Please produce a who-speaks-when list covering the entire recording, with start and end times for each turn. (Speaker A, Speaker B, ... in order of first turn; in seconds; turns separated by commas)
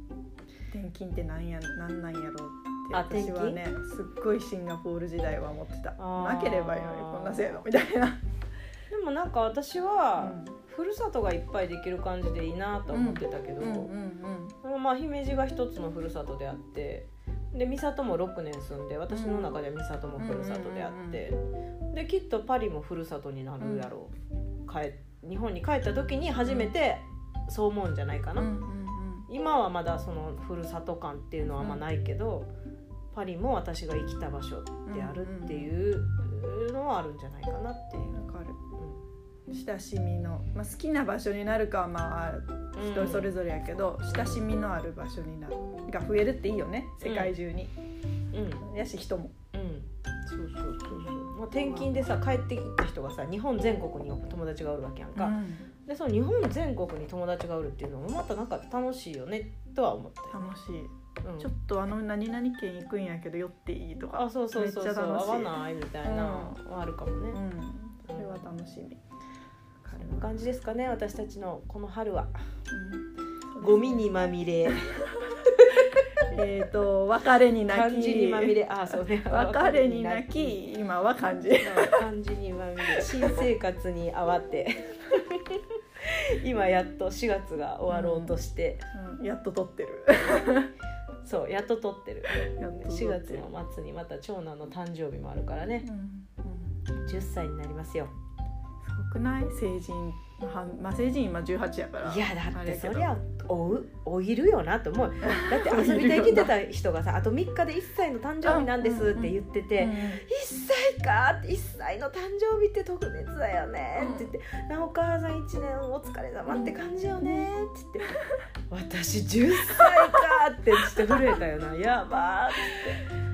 Speaker A: 0.7-8.2, Speaker B: 2.9-3.6, Speaker B: 6.0-7.6, Speaker B: 8.9-13.9, Speaker A: 10.2-10.6, Speaker A: 12.9-14.5, Speaker B: 14.6-21.4, Speaker A: 19.1-19.6, Speaker A: 20.2-21.2, Speaker B: 21.9-24.1, Speaker A: 23.6-23.9, Speaker B: 24.6-28.5, Speaker A: 26.4-26.7, Speaker A: 28.4-29.3, Speaker B: 29.3-32.5, Speaker B: 33.1-38.2, Speaker A: 34.9-35.7, Speaker A: 38.1-38.6, Speaker A: 39.5-47.7, Speaker B: 42.8-43.3, Speaker B: 44.1-44.4, Speaker B: 47.0-47.3, Speaker B: 48.3-48.6, Speaker A: 48.6-49.3, Speaker B: 49.5-60.5, Speaker A: 51.1-52.1, Speaker A: 55.1-55.7, Speaker A: 60.3-66.6, Speaker B: 61.2-61.5, Speaker B: 64.1-67.4, Speaker A: 67.3-69.0, Speaker B: 68.0-68.3, Speaker A: 69.8-70.4, Speaker B: 69.9-72.4, Speaker A: 72.7-74.1, Speaker B: 73.6-76.0, Speaker A: 74.6-75.5, Speaker A: 76.3-82.0, Speaker B: 77.7-80.6, Speaker B: 81.6-88.8, Speaker A: 82.9-83.5, Speaker A: 87.9-88.3, Speaker A: 88.9-90.7, Speaker B: 91.2-95.9, Speaker A: 92.3-93.5, Speaker A: 95.8-96.8, Speaker B: 97.0-98.1, Speaker A: 98.8-103.1, Speaker B: 102.0-118.1, Speaker A: 105.2-106.5, Speaker A: 108.4-110.2, Speaker A: 114.0-114.3, Speaker A: 116.5-117.5, Speaker B: 118.7-123.0, Speaker A: 119.6-121.4